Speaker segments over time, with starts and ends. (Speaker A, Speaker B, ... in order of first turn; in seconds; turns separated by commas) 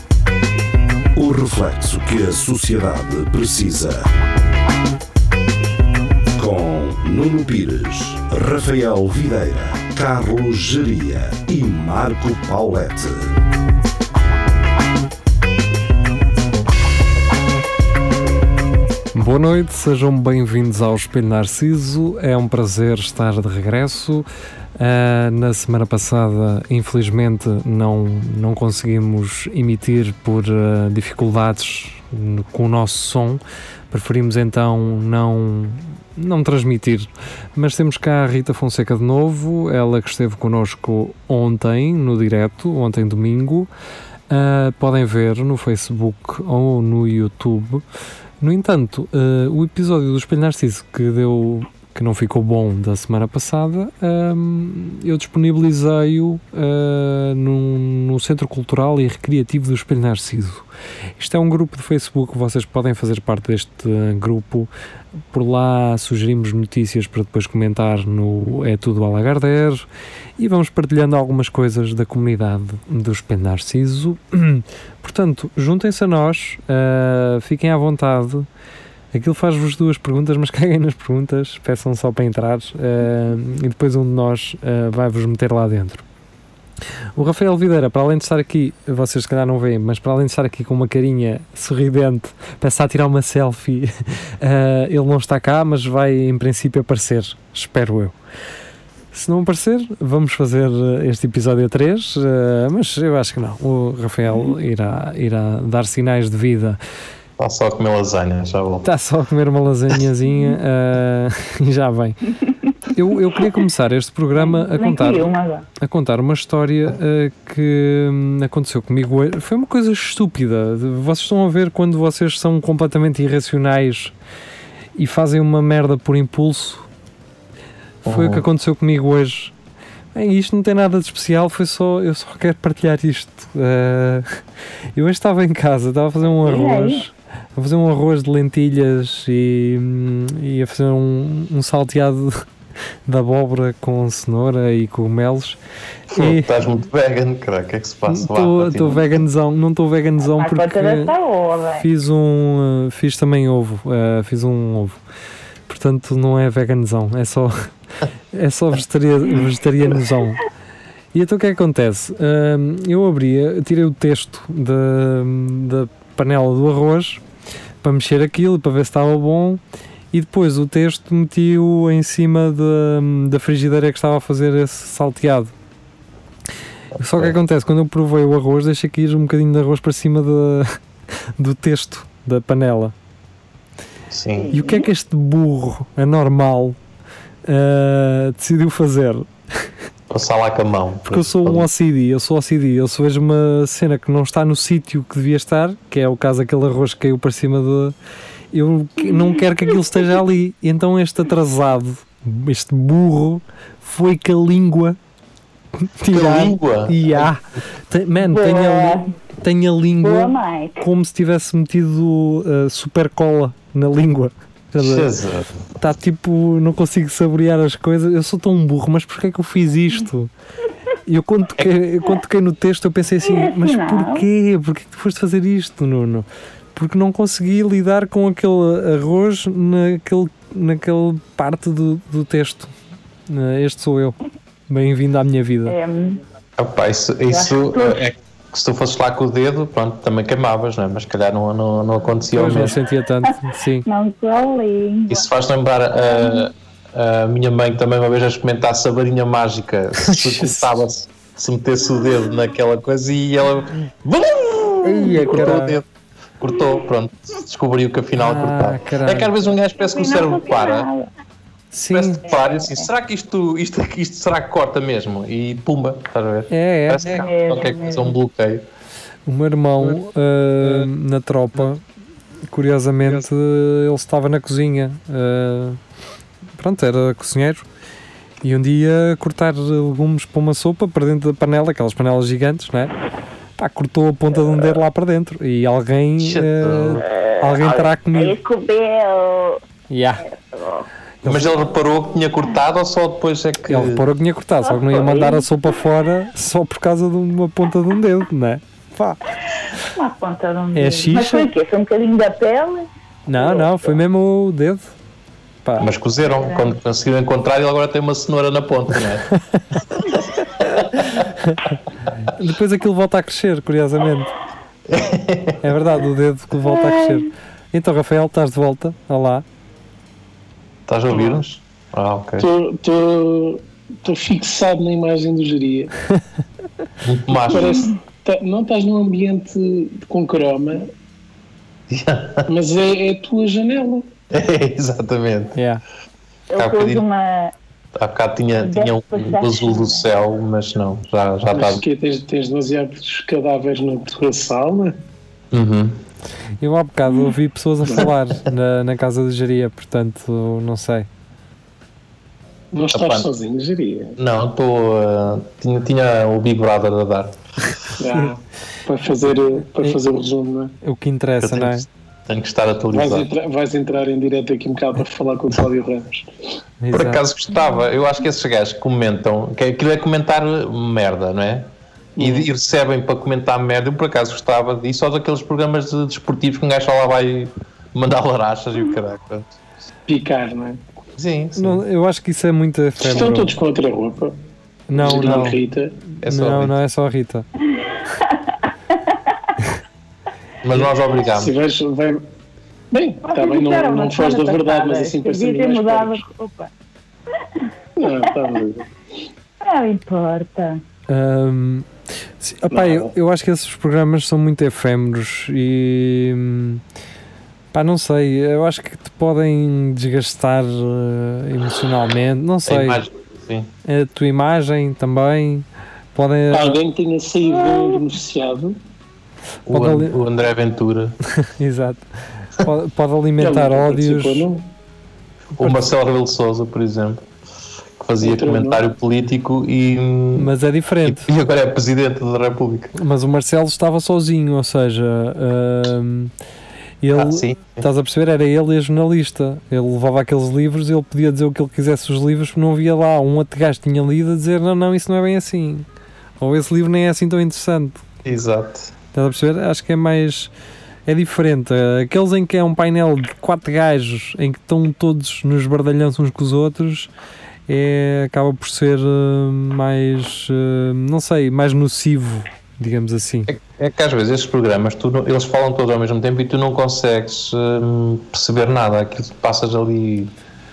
Speaker A: 1.1-4.1, Speaker A: 6.3-13.3, Speaker B: 19.1-24.2, Speaker B: 24.8-43.7, Speaker B: 44.3-47.8, Speaker B: 48.4-60.6, Speaker B: 61.2-64.7, Speaker B: 65.3-69.8, Speaker B: 70.4-78.5, Speaker B: 79.1-86.0, Speaker B: 87.2-98.1, Speaker B: 99.1-106.8, Speaker C: 107.4-108.9, Speaker B: 108.8-112.3, Speaker B: 112.9-124.1, Speaker D: 114.3-115.7, Speaker B: 125.0-126.8, Speaker C: 128.0-128.4, Speaker B: 128.0-129.5, Speaker B: 130.1-134.3, Speaker B: 134.9-142.4, Speaker D: 136.4-137.0, Speaker B: 143.1-145.6, Speaker B: 146.1-146.5, Speaker C: 146.1-149.0, Speaker B: 148.1-151.1, Speaker D: 150.2-151.8, Speaker B: 151.8-155.0, Speaker B: 155.7-157.6, Speaker B: 158.3-160.4, Speaker B: 161.1-167.2, Speaker B: 167.8-169.6, Speaker B: 170.1-175.5, Speaker C: 177.0-177.3, Speaker B: 177.0-180.8, Speaker B: 181.4-182.9, Speaker C: 184.1-184.5, Speaker D: 184.3-184.9, Speaker B: 184.5-186.8, Speaker B: 187.4-189.7, Speaker C: 190.1-191.7, Speaker B: 191.1-197.9, Speaker B: 198.5-204.9, Speaker B: 206.0-215.1, Speaker C: 206.1-207.3, Speaker D: 208.2-209.1, Speaker D: 210.0-210.8, Speaker C: 214.8-215.5, Speaker B: 215.8-220.3, Speaker B: 221.1-232.7, Speaker D: 223.2-224.2, Speaker B: 233.3-234.2, Speaker B: 234.7-235.8, Speaker D: 235.7-236.2, Speaker C: 236.6-242.8, Speaker D: 237.3-238.0, Speaker B: 242.3-243.8, Speaker D: 243.8-245.2, Speaker C: 245.1-255.8, Speaker D: 245.9-246.5, Speaker B: 250.0-250.7, Speaker B: 254.8-255.8, Speaker C: 256.4-260.9, Speaker B: 258.2-259.3, Speaker D: 259.8-261.1, Speaker B: 261.7-262.2, Speaker C: 261.9-268.6, Speaker D: 262.2-262.9, Speaker B: 266.5-267.2, Speaker D: 267.1-268.1, Speaker B: 269.2-271.8, Speaker B: 272.5-275.8, Speaker B: 276.6-277.6, Speaker B: 278.4-282.9, Speaker B: 283.6-288.4, Speaker C: 286.2-287.1, Speaker D: 287.0-289.6, Speaker B: 289.9-290.2, Speaker D: 290.2-290.9, Speaker B: 291.2-291.5, Speaker C: 291.2-294.0, Speaker B: 293.7-299.2, Speaker D: 294.6-295.4, Speaker D: 299.9-304.0, Speaker B: 300.7-301.5, Speaker B: 303.3-304.9, Speaker C: 305.8-309.3, Speaker D: 306.2-306.7, Speaker B: 309.3-309.6, Speaker C: 310.1-311.1, Speaker B: 310.9-314.3, Speaker C: 314.9-315.8, Speaker B: 315.6-319.4, Speaker D: 316.7-317.2, Speaker C: 320.9-322.5, Speaker E: 321.1-321.4, Speaker E: 322.4-325.9, Speaker C: 327.0-327.8, Speaker E: 327.3-330.9, Speaker D: 327.5-328.0, Speaker C: 331.9-332.5, Speaker E: 332.5-334.1, Speaker C: 334.3-335.6, Speaker B: 335.6-335.8, Speaker D: 336.5-337.5, Speaker C: 336.6-337.0, Speaker C: 337.9-341.8, Speaker D: 338.6-340.1, Speaker E: 341.5-345.0, Speaker C: 345.5-346.0, Speaker B: 346.6-351.1, Speaker E: 347.8-348.1, Speaker E: 352.7-354.2, Speaker C: 352.9-353.3, Speaker C: 354.2-357.9, Speaker E: 358.0-360.7, Speaker B: 360.8-361.8, Speaker C: 361.4-363.3, Speaker E: 362.9-366.6, Speaker B: 366.8-367.2, Speaker C: 366.9-379.5, Speaker E: 372.1-372.5, Speaker E: 380.1-380.8, Speaker C: 381.2-381.8, Speaker B: 381.6-383.5, Speaker E: 383.0-384.4, Speaker B: 384.9-385.6, Speaker E: 384.9-386.0, Speaker B: 386.2-387.4, Speaker C: 386.2-386.7, Speaker D: 387.8-388.4, Speaker C: 390.6-391.5, Speaker E: 390.8-392.2, Speaker E: 392.9-396.2, Speaker D: 393.2-396.7, Speaker E: 398.0-398.9, Speaker D: 399.6-400.8, Speaker B: 401.1-401.9, Speaker B: 402.4-406.8, Speaker E: 402.7-403.1, Speaker B: 407.7-413.0, Speaker C: 412.6-413.7, Speaker B: 413.8-416.8, Speaker E: 416.5-418.8, Speaker C: 419.7-421.1, Speaker B: 419.7-420.1, Speaker B: 421.4-424.4, Speaker E: 423.4-424.6, Speaker C: 425.5-427.2, Speaker C: 428.0-430.5, Speaker E: 428.2-428.8, Speaker B: 430.4-431.3, Speaker C: 431.0-432.9, Speaker B: 432.9-436.3, Speaker B: 437.0-445.9, Speaker C: 437.1-437.9, Speaker B: 446.4-448.0, Speaker C: 448.2-448.9, Speaker B: 449.1-450.5, Speaker B: 451.1-457.1, Speaker B: 457.7-463.5, Speaker C: 463.5-470.3